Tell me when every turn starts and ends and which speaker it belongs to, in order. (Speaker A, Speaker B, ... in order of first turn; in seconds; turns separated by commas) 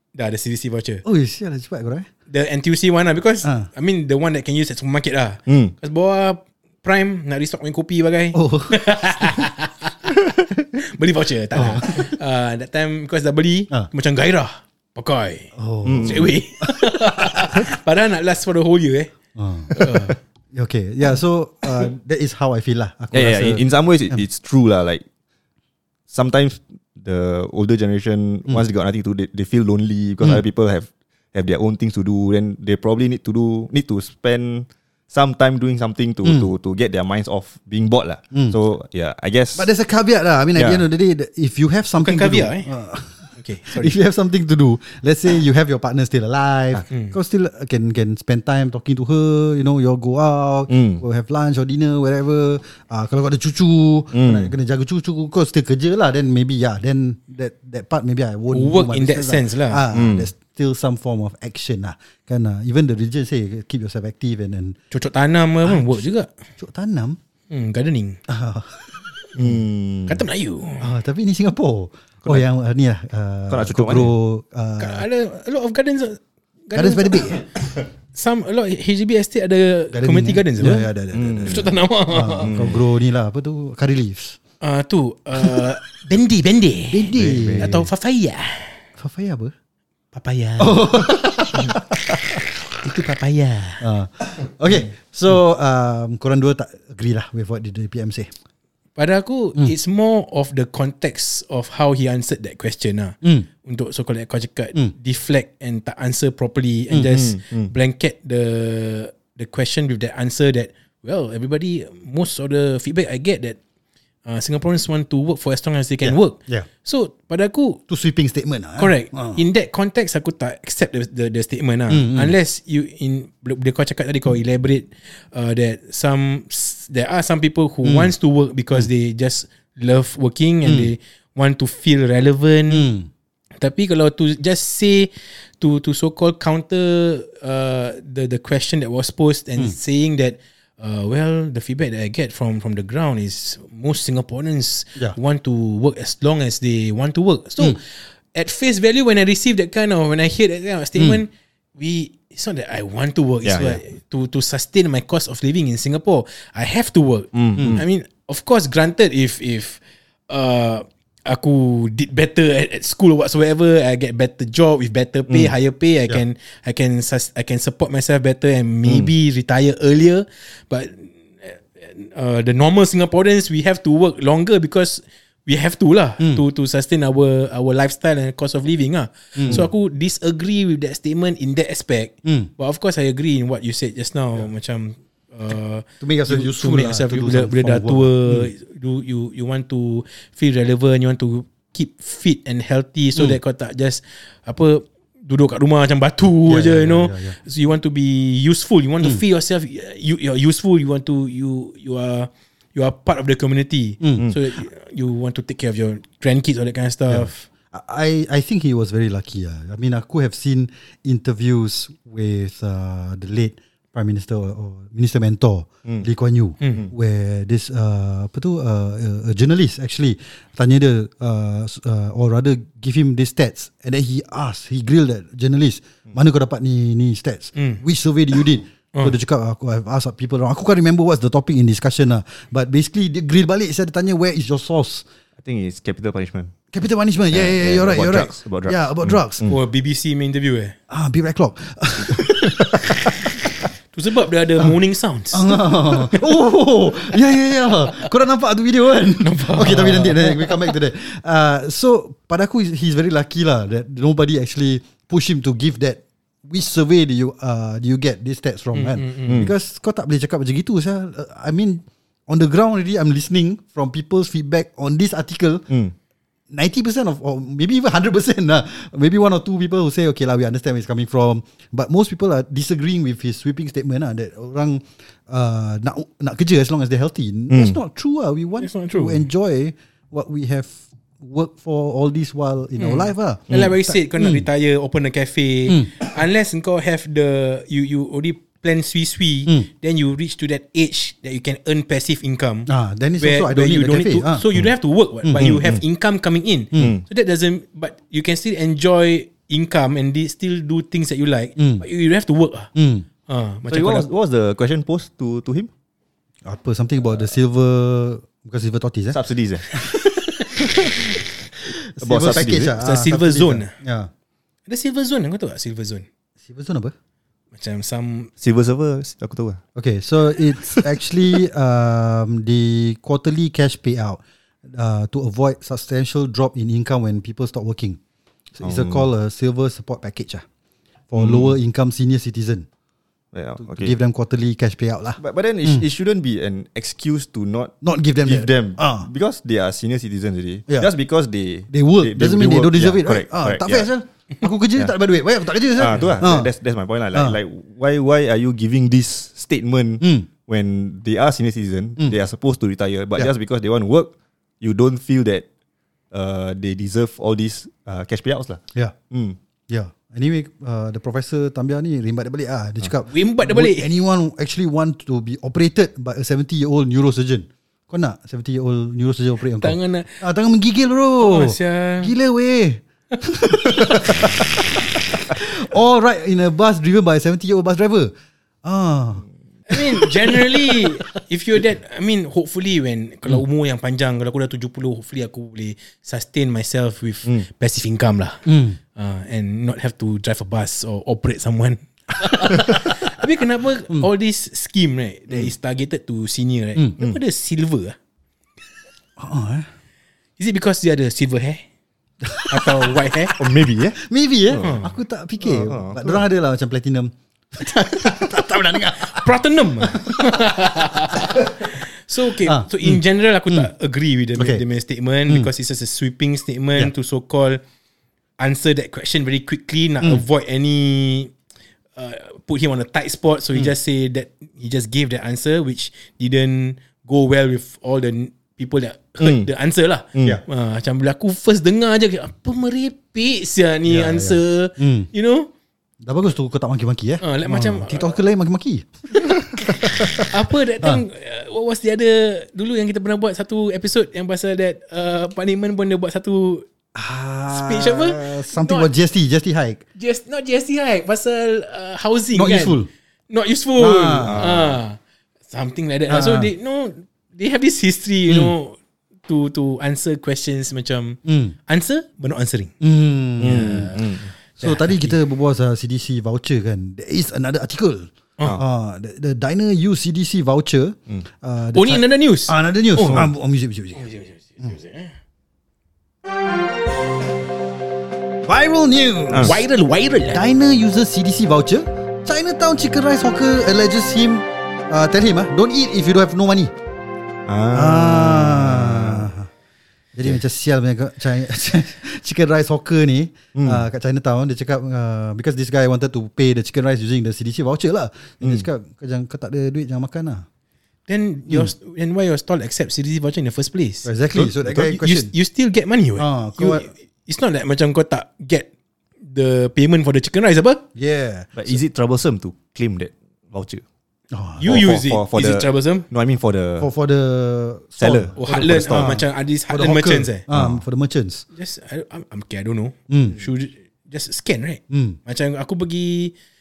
Speaker A: 0.1-1.0, Speaker B: 1.1-2.1, Speaker A: 2.3-9.9, Speaker B: 3.4-3.7, Speaker C: 5.5-5.7, Speaker B: 8.3-8.8, Speaker A: 10.8-15.5, Speaker B: 11.5-12.1, Speaker B: 15.6-16.3, Speaker C: 15.8-16.3, Speaker A: 16.0-19.1, Speaker B: 19.4-24.2, Speaker A: 19.7-20.2, Speaker C: 23.1-25.0, Speaker C: 26.1-39.7, Speaker B: 36.2-36.5, Speaker B: 39.6-64.8, Speaker C: 40.5-40.8, Speaker A: 42.0-42.7, Speaker A: 43.3-44.0, Speaker A: 46.9-47.1, Speaker C: 50.7-51.0, Speaker C: 54.1-54.5, Speaker A: 58.5-59.8, Speaker C: 59.9-60.3, Speaker A: 64.9-66.3, Speaker B: 65.6-66.1, Speaker B: 66.6-67.2, Speaker A: 67.5-68.2, Speaker B: 68.3-69.0, Speaker C: 69.4-70.2, Speaker A: 70.1-70.9, Speaker B: 70.8-75.1, Speaker C: 73.5-74.1, Speaker A: 74.8-77.5, Speaker B: 76.7-77.4, Speaker A: 78.1-80.9, Speaker B: 79.9-84.4, Speaker C: 81.1-81.8, Speaker A: 81.5-82.5, Speaker C: 82.4-82.8, Speaker A: 84.6-88.8, Speaker B: 86.9-87.9, Speaker C: 87.2-87.8, Speaker B: 89.0-89.5, Speaker A: 90.1-91.1, Speaker B: 90.6-91.8, Speaker A: 92.8-93.8, Speaker B: 93.8-98.3, Speaker A: 99.0-113.6, Speaker B: 106.9-107.2, Speaker C: 107.2-107.7, Speaker A: 114.3-117.8, Speaker B: 116.0-116.7, Speaker B: 117.9-119.4, Speaker A: 118.8-132.9, Speaker B: 121.9-122.3, Speaker B: 127.8-128.1, Speaker B: 130.6-130.9, Speaker B: 132.7-133.1, Speaker A: 133.6-207.5, Speaker C: 153.4-153.8, Speaker C: 157.3-157.8, Speaker B: 157.6-157.8, Speaker C: 168.9-169.1, Speaker B: 179.4-179.7, Speaker B: 182.2-182.5, Speaker B: 186.0-188.5, Speaker B: 196.5-197.4, Speaker B: 204.0-204.3, Speaker B: 207.1-235.1, Speaker A: 216.6-216.9, Speaker A: 227.6-227.8, Speaker C: 235.4-236.6, Speaker B: 236.7-239.4, Speaker C: 237.3-239.6, Speaker A: 239.4-240.8, Speaker B: 240.9-242.9, Speaker A: 243.9-246.2, Speaker B: 245.3-265.7, Speaker A: 249.2-250.7, Speaker A: 258.7-259.4, Speaker B: 266.5-284.5, Speaker C: 277.5-277.8, Speaker A: 278.6-279.2, Speaker A: 282.8-302.7, Speaker B: 285.7-285.9, Speaker B: 292.7-294.4, Speaker B: 295.2-295.5, Speaker C: 295.4-295.8, Speaker C: 296.8-297.0, Speaker B: 301.6-301.9, Speaker B: 302.8-303.1, Speaker A: 303.3-304.1, Speaker C: 303.7-305.7, Speaker B: 306.4-309.2, Speaker C: 309.1-309.7, Speaker C: 310.6-310.9, Speaker B: 311.9-314.1, Speaker C: 312.0-312.8, Speaker A: 312.8-313.7, Speaker A: 314.7-316.1, Speaker B: 316.4-316.9, Speaker A: 317.6-318.3, Speaker C: 318.4-319.6, Speaker B: 319.8-328.0, Speaker B: 328.6-330.4, Speaker C: 328.6-329.1, Speaker B: 331.1-332.7, Speaker C: 331.2-331.6, Speaker C: 333.3-333.9, Speaker B: 333.6-335.9, Speaker C: 335.2-343.9, Speaker B: 337.8-339.1, Speaker B: 341.7-346.5, Speaker C: 345.8-355.4, Speaker B: 350.0-350.3, Speaker C: 356.1-359.4, Speaker B: 359.7-378.1, Speaker A: 363.1-363.9, Speaker A: 369.6-370.2, Speaker A: 371.2-372.1, Speaker B: 378.6-381.0, Speaker A: 379.7-398.0, Speaker B: 388.4-388.8, Speaker B: 399.2-399.7, Speaker A: 400.4-401.7, Speaker B: 402.2-402.9, Speaker A: 402.5-403.4, Speaker C: 403.4-404.7, Speaker B: 404.0-409.3, Speaker A: 404.6-404.9, Speaker C: 405.4-406.2, Speaker A: 409.0-417.6, Speaker B: 409.8-410.5, Speaker B: 412.4-413.0, Speaker B: 414.4-414.6, Speaker A: 418.4-421.3, Speaker A: 422.0-435.5, Speaker C: 429.2-429.5, Speaker C: 430.1-430.4, Speaker B: 433.9-435.1, Speaker B: 436.0-441.0, Speaker A: 437.2-438.2, Speaker A: 439.7-446.7, Speaker B: 446.9-449.8, Speaker A: 447.5-448.9, Speaker A: 450.0-452.8, Speaker B: 452.3-452.9, Speaker A: 453.3-462.7, Speaker B: 453.8-454.5, Speaker C: 454.2-454.8, Speaker B: 456.1-456.5, Speaker B: 458.3-458.5, Speaker B: 461.2-461.6, Speaker B: 462.8-464.0, Speaker C: 463.4-464.3, Speaker A: 463.5-463.9, Speaker A: 464.6-465.1, Speaker B: 464.6-474.1, Speaker A: 471.7-473.3, Speaker A: 474.0-475.1, Speaker B: 478.4-479.6, Speaker C: 479.3-479.6, Speaker A: 479.4-480.4, Speaker B: 480.3-486.7, Speaker C: 487.5-489.3, Speaker B: 487.7-489.5, Speaker B: 490.1-500.5, Speaker C: 493.6-493.8, Speaker A: 501.1-504.1, Speaker B: 504.1-505.3, Speaker C: 504.4-504.9, Speaker A: 504.8-508.7, Speaker B: 506.2-506.9, Speaker A: 509.2-510.8, Speaker B: 510.9-511.8, Speaker C: 511.6-513.8, Speaker B: 514.3-514.9, Speaker A: 514.6-516.1, Speaker C: 514.7-516.9, Speaker B: 516.8-521.5, Speaker C: 518.0-519.2, Speaker A: 518.4-520.4, Speaker C: 520.5-520.8, Speaker A: 521.5-526.3, Speaker B: 523.1-523.4, Speaker B: 524.9-525.2